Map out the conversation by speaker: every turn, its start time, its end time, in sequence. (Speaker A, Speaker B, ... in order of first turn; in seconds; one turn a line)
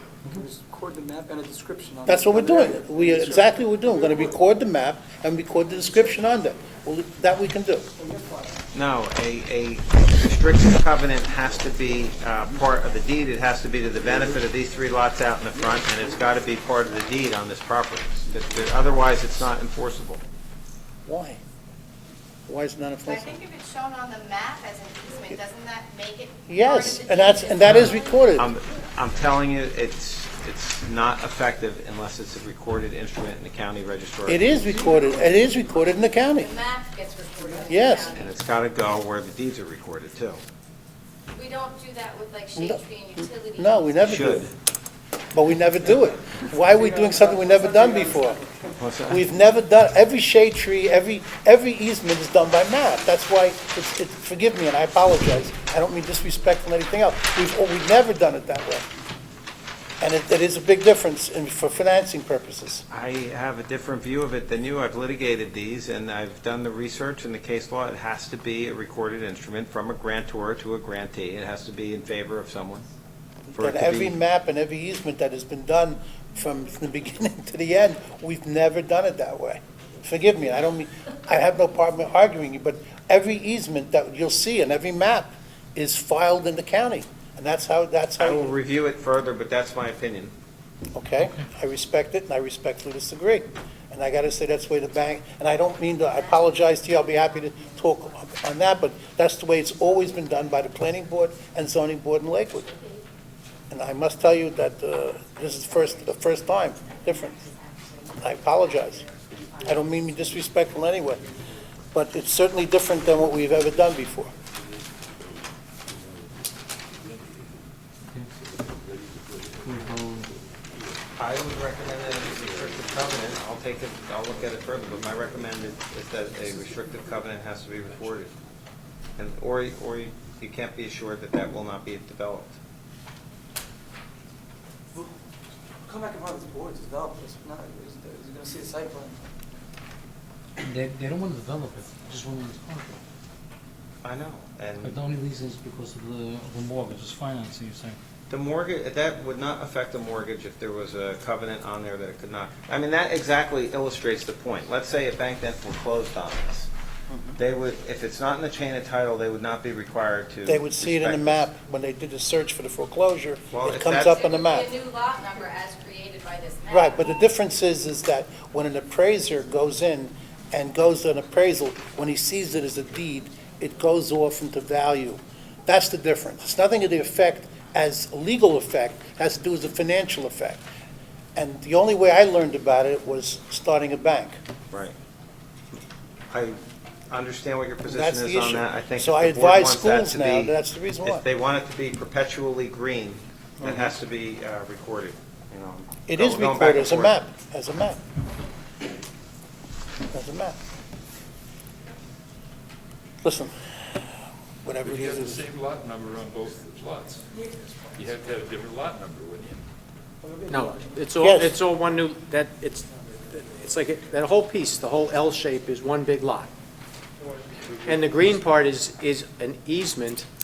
Speaker A: 0.3-4.3
Speaker B: 2.0-7.8
Speaker A: 8.0-8.5
Speaker C: 8.7-20.2
Speaker B: 21.1-21.4
Speaker B: 22.5-23.4
Speaker D: 23.0-28.3
Speaker B: 26.5-28.5
Speaker C: 27.7-34.6
Speaker B: 34.2-36.5
Speaker A: 34.7-35.8
Speaker D: 36.4-38.3
Speaker A: 37.4-38.0
Speaker B: 37.7-38.1
Speaker C: 38.1-40.4
Speaker D: 41.3-43.9
Speaker B: 42.5-42.8
Speaker B: 43.5-44.5
Speaker C: 44.0-44.5
Speaker B: 45.3-48.4
Speaker A: 46.6-48.8
Speaker C: 48.8-49.1
Speaker B: 49.1-58.8
Speaker B: 60.0-62.8
Speaker C: 62.9-72.8
Speaker B: 73.5-88.5
Speaker C: 73.5-74.2
Speaker C: 88.2-90.3
Speaker B: 90.9-102.7
Speaker E: 91.2-91.4
Speaker D: 96.2-98.0
Speaker D: 102.6-103.0
Speaker B: 103.7-107.4
Speaker D: 107.2-108.2
Speaker B: 108.2-109.0
Speaker D: 108.8-109.1
Speaker F: 109.3-109.8
Speaker B: 109.6-111.2
Speaker B: 111.9-114.3
Speaker F: 114.5-117.6
Speaker F: 118.3-121.0
Speaker E: 119.6-120.3
Speaker C: 121.2-128.3
Speaker F: 121.5-125.6
Speaker C: 129.2-132.6
Speaker A: 135.8-139.2
Speaker E: 140.6-143.0
Speaker C: 144.0-145.0
Speaker E: 144.8-148.0
Speaker C: 148.3-156.7
Speaker B: 157.1-157.4
Speaker C: 157.4-161.5
Speaker B: 160.4-164.7
Speaker C: 163.5-164.2
Speaker D: 164.0-167.0
Speaker B: 166.7-180.6
Speaker B: 181.3-184.4
Speaker C: 186.3-186.6
Speaker C: 187.1-197.2
Speaker B: 187.8-191.2
Speaker B: 193.6-193.9
Speaker B: 196.1-198.0
Speaker B: 200.1-200.6
Speaker B: 203.2-203.5
Speaker B: 204.6-205.5
Speaker F: 204.8-207.3
Speaker F: 207.9-209.6
Speaker A: 210.2-211.1
Speaker G: 210.5-216.5
Speaker B: 211.2-211.5
Speaker F: 217.6-218.5
Speaker G: 217.8-220.3